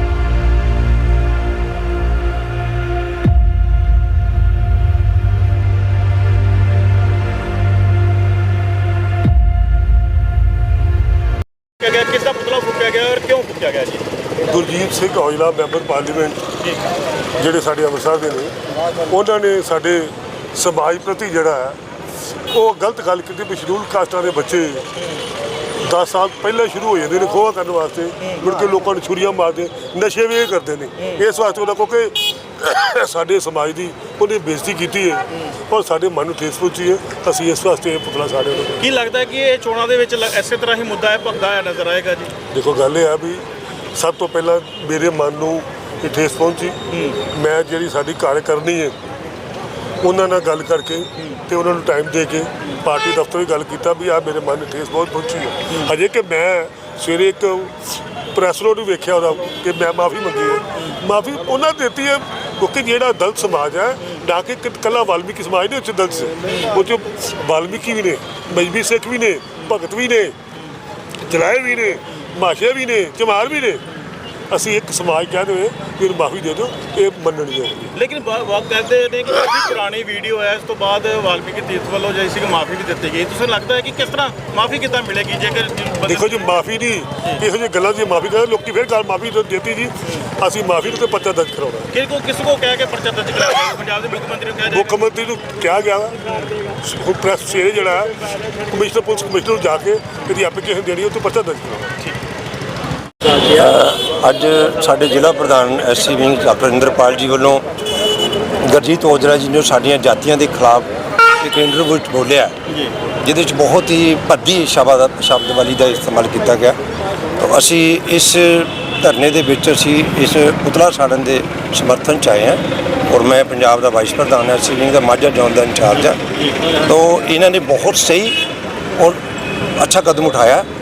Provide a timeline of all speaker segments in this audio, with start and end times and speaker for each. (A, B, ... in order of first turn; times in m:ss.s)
0:11.8-0:14.1 A
0:14.4-0:16.4 B
0:17.4-0:18.5 B
0:19.1-0:21.8 B
0:22.5-0:24.8 B
0:25.8-0:38.9 B
0:38.8-0:42.3 A
0:42.5-0:43.4 B
0:43.9-0:48.9 B
0:46.9-0:47.2 A
0:50.0-1:10.3 B
1:11.2-1:13.8 B
1:14.5-1:17.9 B
1:17.9-1:26.6 A
1:26.0-1:31.9 B
1:31.9-1:35.0 A
1:34.7-1:36.2 B
1:36.8-1:38.1 B
1:38.7-1:41.9 B
1:43.4-1:47.6 C
1:48.6-1:52.5 C
1:52.7-1:52.9 A
1:53.2-1:56.8 C
1:57.4-2:08.4 C
2:09.8-2:10.6 C